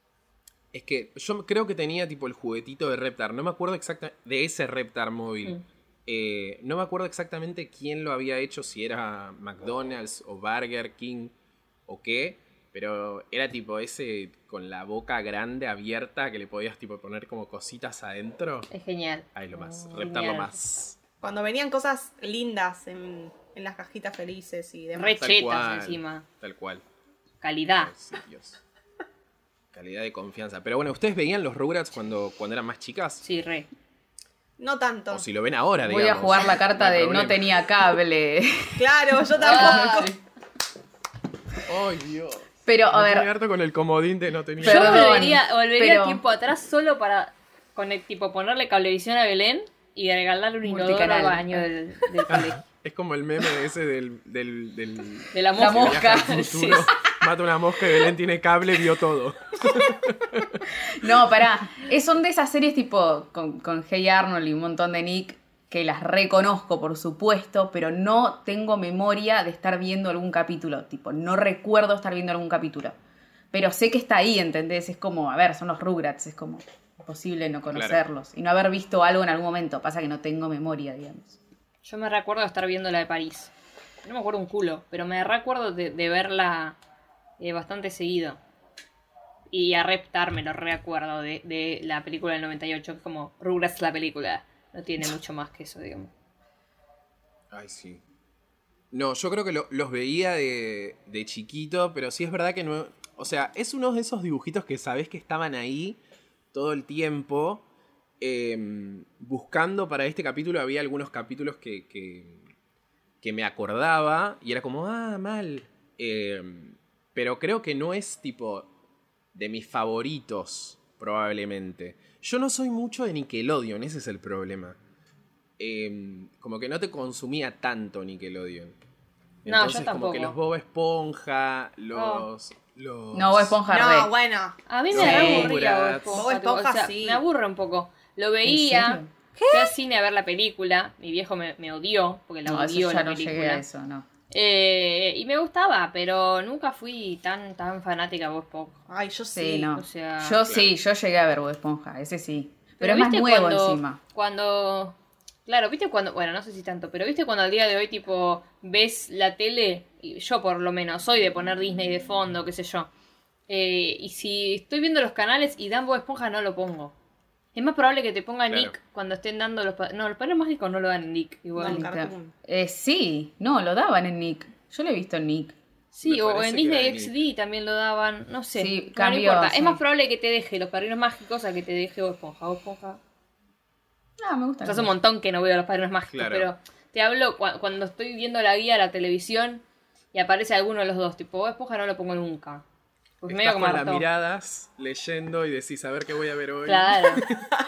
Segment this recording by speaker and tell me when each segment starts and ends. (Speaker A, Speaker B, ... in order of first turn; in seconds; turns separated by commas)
Speaker A: 0.7-11.3, Speaker A: 11.9-18.7, Speaker B: 18.7-20.5, Speaker A: 19.3-21.0, Speaker C: 21.2-25.2, Speaker B: 24.9-26.2, Speaker A: 25.2-26.8, Speaker B: 27.4-27.9, Speaker A: 27.8-28.6, Speaker A: 29.7-33.2, Speaker B: 33.2-33.7, Speaker C: 34.6-35.2, Speaker A: 35.1-37.6, Speaker D: 35.8-40.2, Speaker C: 38.8-40.1, Speaker B: 39.4-40.1, Speaker A: 41.6-45.3, Speaker D: 42.6-43.3, Speaker D: 44.6-46.2, Speaker B: 44.6-52.6, Speaker D: 50.6-51.7, Speaker A: 52.3-60.7, Speaker B: 55.3-56.9, Speaker D: 55.6-56.8, Speaker D: 60.8-73.0, Speaker D: 73.5-81.4, Speaker A: 77.7-78.0, Speaker B: 81.8-83.5, Speaker B: 84.0-86.8, Speaker B: 87.4-88.4, Speaker B: 89.5-96.1, Speaker A: 97.5-98.0, Speaker A: 98.9-106.0, Speaker A: 106.5-107.6, Speaker A: 108.2-112.4, Speaker A: 113.2-118.7, Speaker A: 119.3-124.8, Speaker A: 125.6-128.8, Speaker A: 129.4-133.6, Speaker B: 129.4-130.3, Speaker B: 131.9-132.3, Speaker D: 133.1-134.1, Speaker C: 133.7-134.6, Speaker B: 134.7-143.6, Speaker A: 134.9-136.2, Speaker D: 134.9-135.5, Speaker C: 136.1-137.2, Speaker D: 138.4-139.7, Speaker D: 142.4-144.1, Speaker B: 144.3-148.8, Speaker C: 148.9-149.7, Speaker D: 149.3-154.0, Speaker B: 149.7-150.4, Speaker A: 150.4-150.7, Speaker B: 152.8-154.9, Speaker B: 155.5-162.9, Speaker B: 163.5-166.9, Speaker B: 167.5-171.9, Speaker A: 168.5-168.7, Speaker C: 171.6-172.3, Speaker D: 171.6-175.6, Speaker B: 175.9-183.0, Speaker A: 176.0-177.1, Speaker D: 178.5-179.8, Speaker D: 184.2-184.9, Speaker B: 184.6-189.6, Speaker A: 186.1-186.5, Speaker B: 190.1-192.6, Speaker B: 193.2-194.0, Speaker A: 193.3-197.5, Speaker B: 196.7-197.2